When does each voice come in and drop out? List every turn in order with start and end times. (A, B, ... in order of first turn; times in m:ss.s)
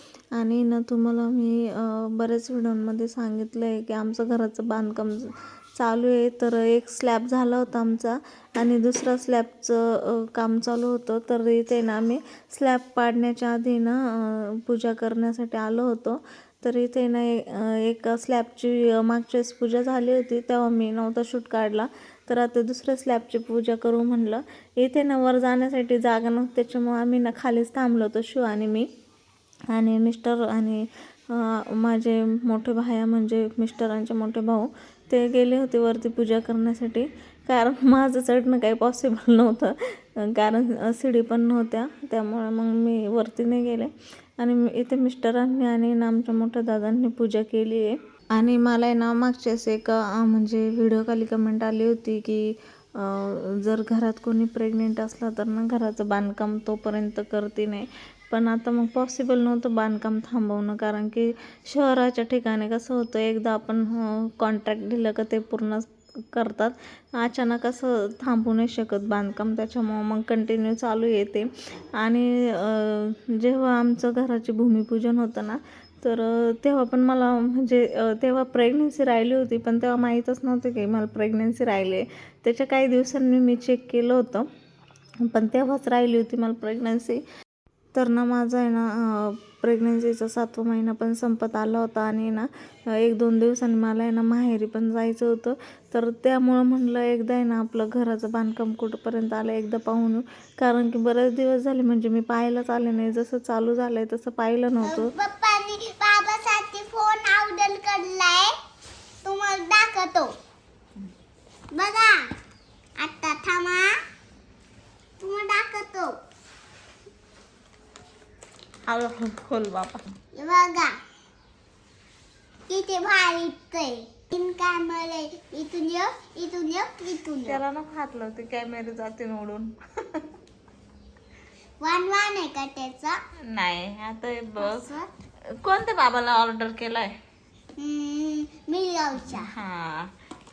0:00.4-0:28.9 A
0:29.7-0:39.7 A
0:40.3-0:52.5 A
0:53.0-1:24.5 A
1:25.3-1:27.2 A
1:27.9-1:45.1 A
1:44.8-1:48.5 B
1:49.2-1:50.3 B
1:51.7-1:52.2 B
1:53.0-1:53.9 B
1:55.2-1:56.1 B
1:58.9-2:00.1 A
2:00.3-2:01.0 B
2:02.7-2:07.6 B
2:07.4-2:09.7 A
2:11.8-2:13.2 B
2:13.5-2:14.9 A
2:14.6-2:15.1 B
2:15.6-2:17.1 A
2:17.8-2:19.4 B
2:19.3-2:20.1 A